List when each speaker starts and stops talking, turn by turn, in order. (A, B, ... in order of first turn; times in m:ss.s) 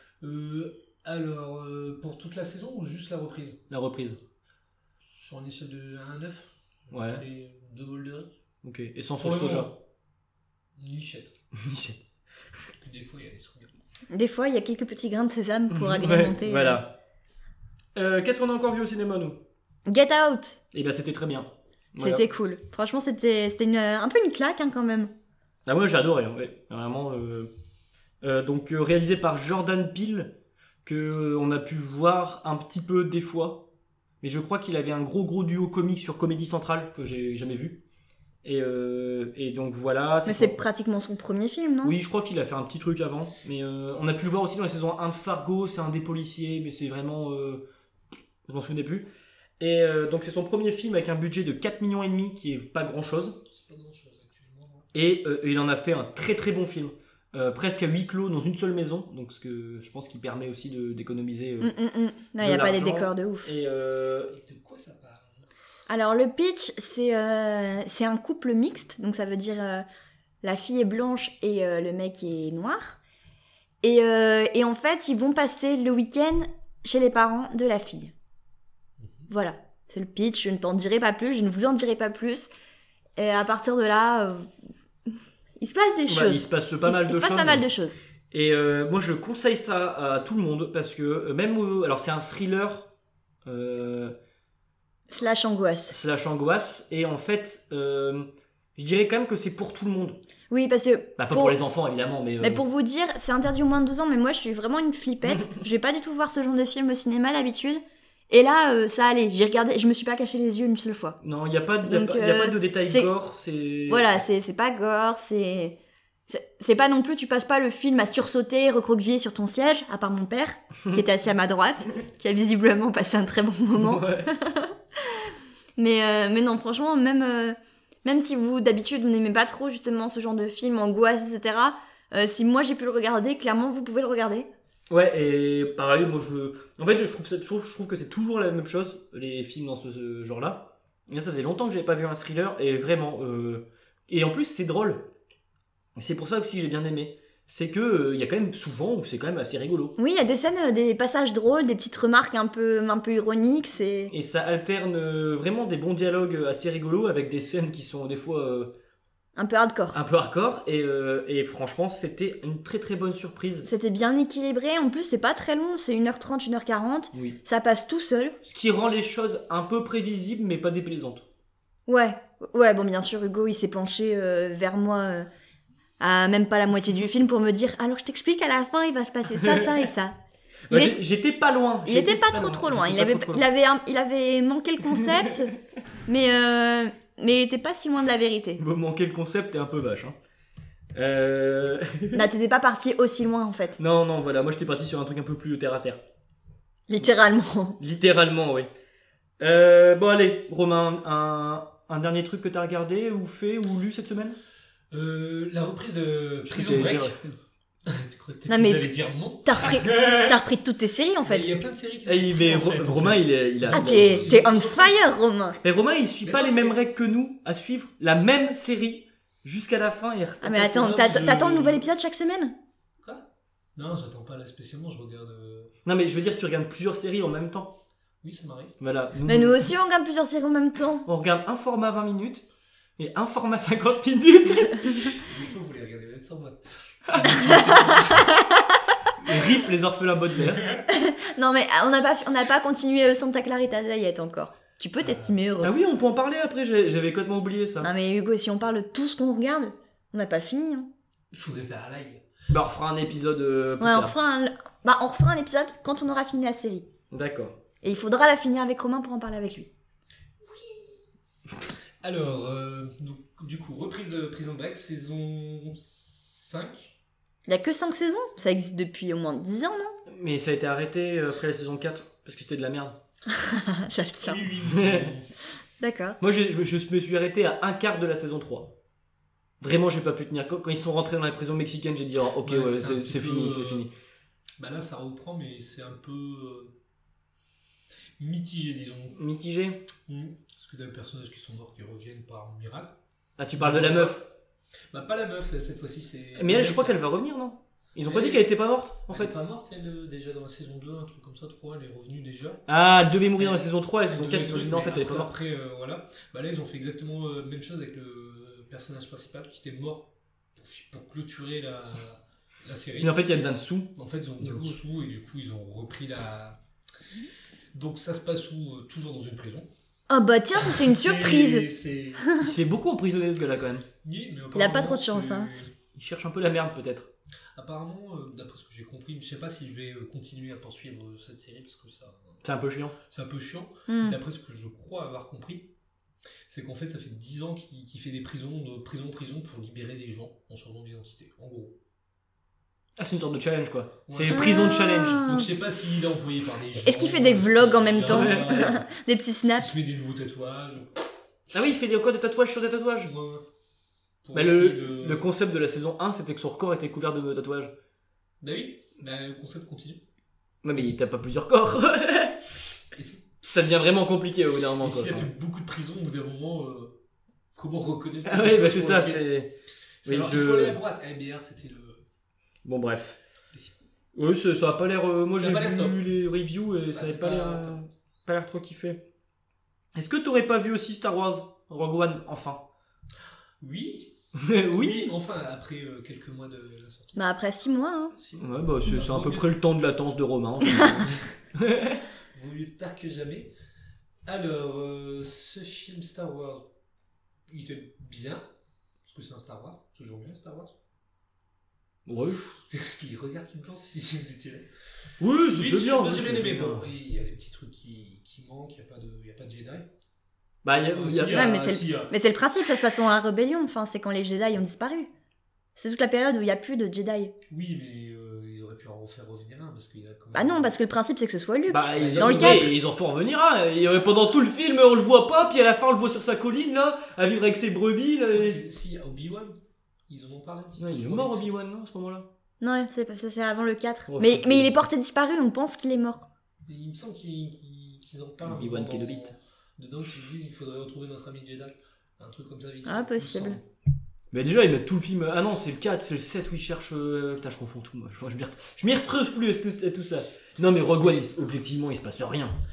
0:00.2-0:03.6 A
0:03.7-0:04.2 B
0:05.2-0:08.3 A
0:06.9-0:07.2 B
0:08.6-0:09.7 B
0:09.2-0:09.8 A
0:10.8-0:11.3 A
0:11.5-0:12.0 B
0:12.8-0:13.7 A
0:14.1-0:16.8 C
0:15.7-0:16.9 B
0:17.9-0:19.4 B
0:19.9-0:20.6 C
0:20.7-0:22.2 B
0:22.0-0:25.1 C
0:25.6-0:27.5 B
0:28.2-0:30.3 B
0:30.8-0:33.6 B
0:34.2-0:37.8 B
0:38.4-0:40.6 B
0:40.2-0:41.9 C
0:41.8-0:47.6 B
0:48.4-0:53.4 B
0:53.5-0:54.9 A
0:54.9-1:01.7 B
1:01.6-1:03.5 C
1:02.4-1:04.3 B
1:04.3-1:05.4 A
1:05.9-1:09.8 C
1:10.4-1:13.0 C
1:13.8-1:18.1 C
1:19.0-1:19.3 A
1:19.3-1:22.5 C
1:23.2-1:24.5 C
1:25.6-1:28.0 C
1:26.1-1:27.7 B
1:28.3-1:32.9 B
1:33.4-1:34.1 B
1:35.1-1:36.0 C
1:35.9-1:40.2 B
1:40.5-1:41.6 C
1:41.2-1:42.6 B
1:42.4-1:51.2 C
1:45.2-1:45.5 B
1:51.2-1:54.2 B
1:51.8-1:53.1 C
1:53.9-1:55.8 C
1:56.3-2:05.1 C
2:03.7-2:04.3 B
2:05.8-2:14.5 C
2:14.9-2:25.1 B
2:25.9-2:30.0 B
2:30.0-2:34.1 C
2:34.1-2:38.7 B
2:39.4-2:40.0 C
2:39.9-2:43.7 B
2:43.6-2:48.4 C
2:47.1-2:47.4 B
2:48.4-2:51.2 B
2:51.9-2:55.3 C
2:56.0-3:00.1 C
2:59.4-2:59.8 B
3:00.7-3:03.4 B
3:00.7-3:01.0 C
3:01.8-3:05.5 C
3:06.0-3:08.6 C
3:08.6-3:10.2 B
3:10.9-3:12.3 B
3:12.1-3:13.8 C
3:13.8-3:16.0 B
3:16.9-3:17.8 C
3:17.8-3:18.7 B
3:19.4-3:24.4 B
3:24.9-3:27.3 A
3:26.5-3:27.2 B
3:27.8-3:30.4 A
3:28.5-3:28.9 C
3:29.4-3:31.5 C
3:31.2-3:35.0 A
3:32.0-3:34.3 B
3:33.7-3:35.6 C
3:35.6-3:41.2 B
3:36.2-3:36.8 A
3:40.4-3:42.5 C
3:40.8-3:41.7 A
3:43.0-3:45.7 A
3:45.8-3:47.8 B
3:48.2-3:48.8 A
3:48.8-3:49.7 B
3:49.3-3:51.0 C
3:51.0-3:52.4 B
3:53.0-3:55.2 B
3:55.1-3:58.3 A
3:57.1-3:57.6 B
3:57.3-3:58.6 C
3:59.2-4:00.8 B
4:00.4-4:00.8 A
4:00.9-4:05.7 C
4:05.0-4:05.4 A
4:05.6-4:07.9 B
4:07.8-4:10.9 C
4:11.3-4:12.2 A
4:12.5-4:14.1 B
4:13.8-4:16.8 C
4:17.1-4:17.6 B
4:17.8-4:19.7 C
4:20.4-4:21.0 A
4:22.0-4:26.9 A
4:27.5-4:30.0 C
4:30.1-4:33.0 B
4:33.3-4:34.4 C
4:34.2-4:35.3 A
4:34.6-4:35.1 B
4:35.8-4:36.2 C
4:36.2-4:38.7 B
4:39.6-4:43.9 B
4:42.4-4:43.9 A
4:44.6-4:46.7 A
4:48.2-4:49.2 A
4:49.1-4:49.9 B
4:50.0-4:53.0 A
4:53.4-4:54.2 B
4:53.5-4:54.3 A
4:54.9-4:57.0 A
4:56.4-4:59.3 B
4:58.0-4:58.5 A
4:59.1-5:02.6 A
5:02.7-5:05.3 B
5:03.4-5:13.4 A
5:13.0-5:14.8 B
5:13.9-5:16.6 A
5:17.7-5:19.7 A
5:20.1-5:21.7 C
5:20.6-5:22.4 A
5:22.4-5:23.8 B
5:24.0-5:25.7 A
5:24.5-5:25.5 C
5:25.9-5:27.1 B
5:27.6-5:32.4 A
5:32.4-5:33.0 B
5:33.1-5:35.7 A
5:33.9-5:34.2 C
5:36.5-5:41.7 A
5:43.0-5:45.2 B
5:44.1-5:48.8 A
5:44.3-5:45.5 C
5:46.8-5:49.6 C
5:48.0-5:48.8 B
5:49.6-5:50.9 A
5:51.5-5:53.1 B
5:53.0-5:53.4 A
5:54.2-5:55.3 A
5:54.3-5:57.7 B
5:58.4-6:00.0 A
6:00.6-6:02.4 B
6:03.5-6:05.3 B
6:04.8-6:07.0 A
6:07.5-6:09.2 A
6:08.2-6:09.5 B
6:10.0-6:12.0 A
6:10.0-6:10.8 B
6:12.6-6:13.2 B
6:14.1-6:19.0 B
6:15.4-6:16.0 A
6:16.9-6:17.8 A
6:19.9-6:22.7 B
6:23.6-6:24.1 A
6:24.3-6:25.1 B
6:24.7-6:27.2 A
6:27.2-6:28.1 C
6:28.1-6:29.6 A
6:28.4-6:32.0 B
6:31.0-6:31.3 A
6:32.3-6:33.5 A
6:34.2-6:36.7 A
6:37.5-6:38.4 A
6:39.0-6:40.8 A
6:42.0-6:42.5 B
6:42.3-6:44.7 A
6:45.2-6:46.9 B
6:45.5-6:49.9 A
6:50.6-6:51.7 B
6:50.7-6:52.1 A
6:51.3-6:55.1 C
6:55.8-6:57.3 C
6:57.5-7:00.7 A
7:00.3-7:02.7 C
7:01.7-7:08.6 B
7:01.9-7:02.7 A
7:08.3-7:09.6 A
7:10.1-7:11.5 A
7:10.8-7:12.3 B
7:12.6-7:16.3 C
7:14.1-7:14.7 B
7:16.6-7:23.6 A
7:18.4-7:19.3 B
7:22.8-7:23.6 C
7:24.3-7:32.6 B